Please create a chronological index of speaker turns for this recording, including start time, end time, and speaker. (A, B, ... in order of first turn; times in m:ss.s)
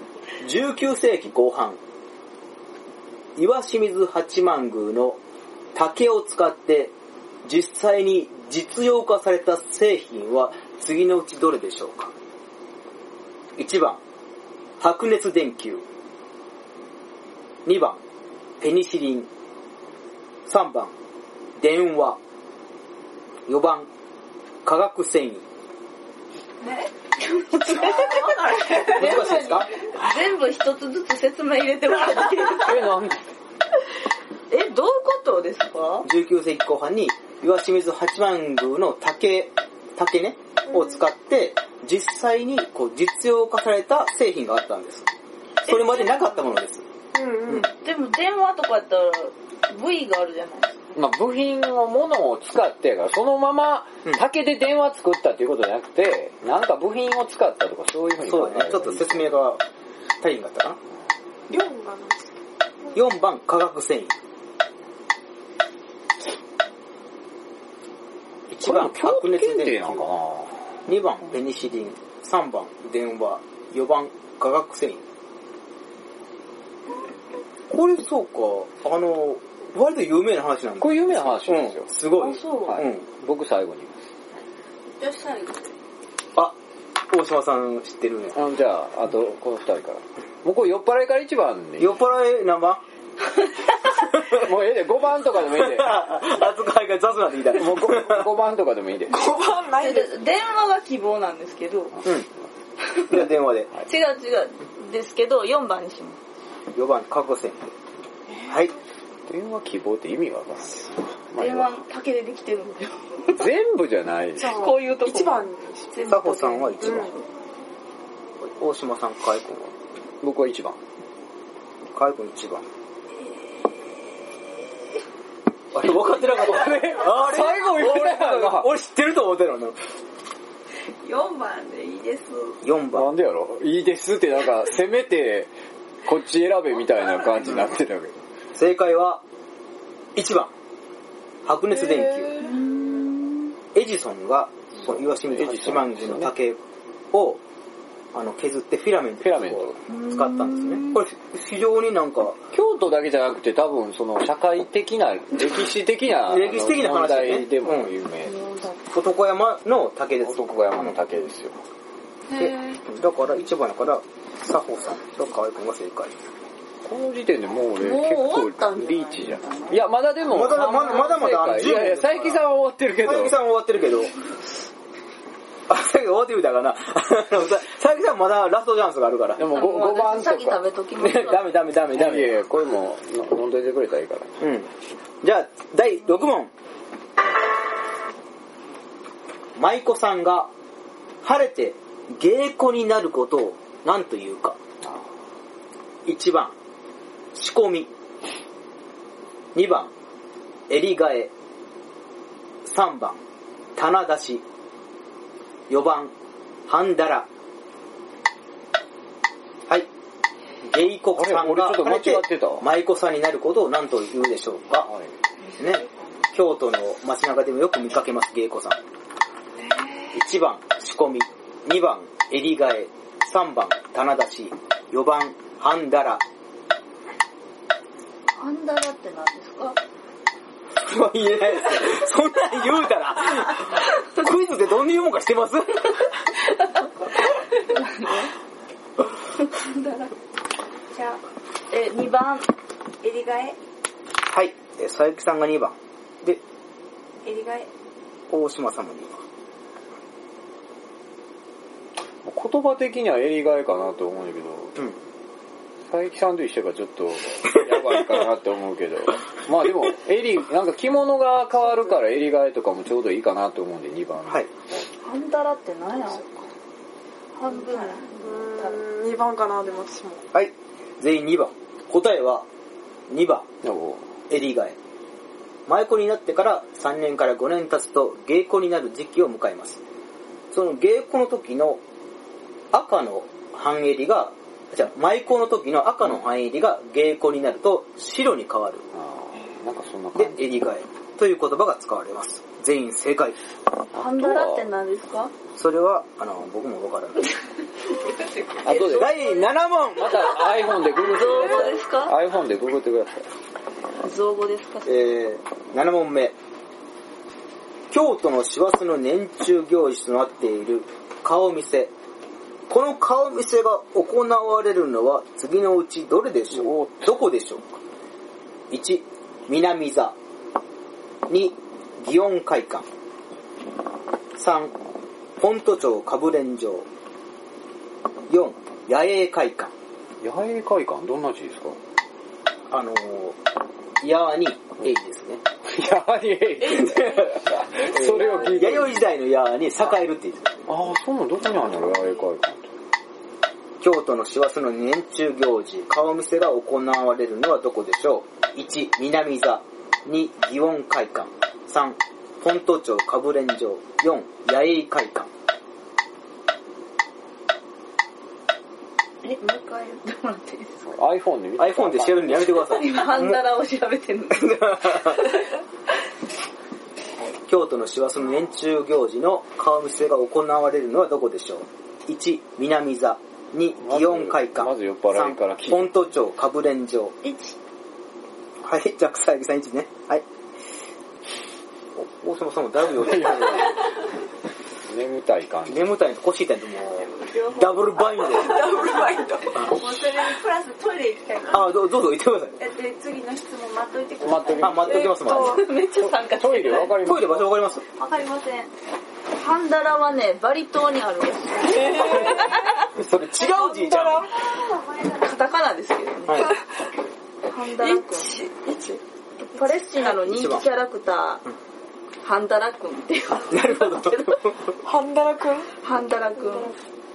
0:00.4-0:01.8 A
0:03.4-0:05.2 A
0:05.8-0:06.9 A
0:07.4-0:12.1 A
0:13.6-0:14.0 A
0:14.8-0:15.8 A
0:17.6-0:18.0 A
0:18.6-0:19.3 A
0:20.5-0:20.9 A
0:21.6-0:22.2 A
0:23.5-0:23.9 A
0:24.6-0:25.4 A
0:26.6-0:26.9 B
0:27.2-0:32.8 C
0:27.7-0:29.2 B
0:28.9-0:29.7 A
0:32.6-0:33.2 D
0:34.5-0:36.1 C
0:36.0-0:45.1 A
0:45.6-0:46.8 A
0:47.1-0:47.7 E
0:47.8-0:50.8 C
0:51.0-0:59.2 D
0:58.2-0:59.6 A
1:00.2-1:00.8 A
1:01.5-1:02.4 E
1:02.9-1:04.2 A
1:08.5-1:10.0 A
1:08.6-1:10.6 D
1:10.9-1:15.0 A
1:17.7-1:23.0 A
1:20.8-1:21.9 D
1:22.2-1:22.8 C
1:22.7-1:24.1 D
1:25.0-1:25.7 B
1:27.1-1:28.4 A
1:28.4-1:32.0 D
1:31.8-1:32.8 A
1:34.2-1:36.0 D
1:35.4-1:38.3 A
1:37.5-1:39.3 D
1:39.1-1:40.1 E
1:39.8-1:42.0 C
1:43.0-1:43.7 A
1:43.9-1:46.2 C
1:46.8-1:47.7 A
1:48.3-1:48.7 E
1:48.5-1:48.8 A
1:49.3-1:51.7 D
1:51.4-1:53.5 C
1:53.3-1:54.7 D
1:54.4-1:56.2 E
1:54.5-1:57.2 C
1:56.1-1:57.2 A
1:56.8-1:57.1 E
1:58.4-1:59.7 A
2:00.2-2:00.8 D
2:01.9-2:02.7 A
2:03.2-2:04.3 B
2:05.7-2:09.8 A
2:06.4-2:08.7 D
2:11.0-2:12.6 B
2:12.6-2:13.1 A
2:12.9-2:15.5 D
2:16.0-2:18.1 D
2:18.6-2:19.2 A
2:20.2-2:20.5 A
2:21.4-2:22.4 A
2:21.7-2:23.1 E
2:22.4-2:23.6 C
2:23.7-2:26.6 A
2:24.8-2:26.3 D
2:27.1-2:27.4 A
2:28.1-2:32.4 A
2:29.2-2:29.8 D
2:29.9-2:31.0 C
2:32.5-2:38.4 D
2:36.2-2:37.9 A
2:38.3-2:38.8 C
2:38.9-2:41.0 A
2:40.2-2:41.6 D
2:42.4-2:46.2 A
2:46.8-2:53.4 D
2:47.8-2:49.8 C
2:50.3-2:52.4 A
2:53.0-2:54.1 A
2:55.7-2:59.4 A
2:59.4-3:00.6 D
2:59.5-3:01.5 C
3:01.0-3:02.4 A
3:01.9-3:04.4 D
3:04.4-3:04.7 A
3:05.2-3:06.5 A
3:09.6-3:10.5 A
3:11.2-3:14.6 A
3:16.1-3:16.6 A
3:17.3-3:17.9 A
3:19.6-3:19.9 A
3:20.7-3:21.3 A
3:22.6-3:23.2 A
3:23.8-3:24.4 A
3:25.7-3:26.1 A
3:26.7-3:27.3 A
3:30.6-3:34.9 A
3:31.1-3:32.7 D
3:34.9-3:35.1 D
3:35.6-3:38.8 A
3:40.1-3:46.2 A
3:48.4-3:49.8 C
3:50.8-3:56.0 A
3:57.6-3:58.3 C
3:59.4-4:00.1 C
4:00.9-4:01.2 B
4:01.7-4:02.5 C
4:03.0-4:03.6 B
4:04.3-4:06.4 A
4:07.2-4:07.7 B
4:08.3-4:09.1 A
4:12.2-4:14.8 D
4:15.9-4:24.8 D
4:25.0-4:26.3 C
4:27.4-4:28.8 C
4:28.2-4:30.2 E
4:30.3-4:32.5 A
4:33.1-4:33.5 A
4:33.6-4:34.0 D
4:34.3-4:34.8 A
4:35.7-4:39.8 A
4:40.5-4:41.8 A
4:42.7-4:48.8 A
4:48.9-4:50.6 D
4:50.2-4:53.4 A
4:53.9-4:55.3 C
4:53.9-4:54.6 D
4:55.6-4:57.3 A
4:58.4-4:59.4 C
4:58.6-4:59.2 D
4:58.7-5:00.4 A
5:00.0-5:03.3 D
5:01.0-5:02.2 C
5:04.0-5:05.2 C
5:04.8-5:06.4 A
5:07.9-5:11.9 A
5:12.7-5:17.7 A
5:16.5-5:17.2 D
5:18.7-5:20.2 A
5:21.3-5:22.8 A
5:24.4-5:24.8 A
5:25.4-5:26.9 A
5:28.3-5:29.7 A
5:30.2-5:31.8 D
5:32.7-5:33.4 A
5:34.0-5:35.4 A
5:35.7-5:39.0 D
5:36.7-5:37.2 A
5:36.8-5:37.4 B
5:37.9-5:40.6 A
5:38.1-5:38.5 C
5:40.7-5:42.7 D
5:43.8-5:55.3 A
5:59.2-6:00.8 C
6:00.9-6:02.7 D
6:01.6-6:03.4 A
6:02.6-6:04.7 C
6:04.3-6:05.3 A
6:07.5-6:17.2 A
6:13.8-6:16.0 D
6:17.2-6:17.5 C
6:18.6-6:20.2 A
6:22.0-6:23.8 A
6:23.0-6:23.8 D
6:24.9-6:25.8 D
6:25.7-6:28.6 A
6:27.0-6:31.7 B
6:28.3-6:29.6 E
6:31.5-6:32.6 A
6:32.6-6:35.0 B
6:34.2-6:35.2 D
6:34.6-6:35.6 A
6:34.9-6:35.6 E
6:35.2-6:37.0 C
6:35.8-6:37.5 D
6:37.0-6:37.8 A
6:37.9-6:38.7 B
6:39.4-6:42.8 C
6:41.6-6:42.9 E
6:43.0-6:44.3 A
6:43.4-6:44.3 E
6:44.3-6:45.4 B
6:45.2-6:46.5 C
6:46.3-6:46.6 A
6:47.5-6:48.3 C
6:47.8-6:49.0 E
6:49.4-6:51.4 C
6:49.6-6:50.1 E
6:50.2-6:50.6 A
6:52.2-6:54.4 C
6:53.5-6:54.6 A
6:54.8-6:55.7 E
6:55.8-6:56.7 C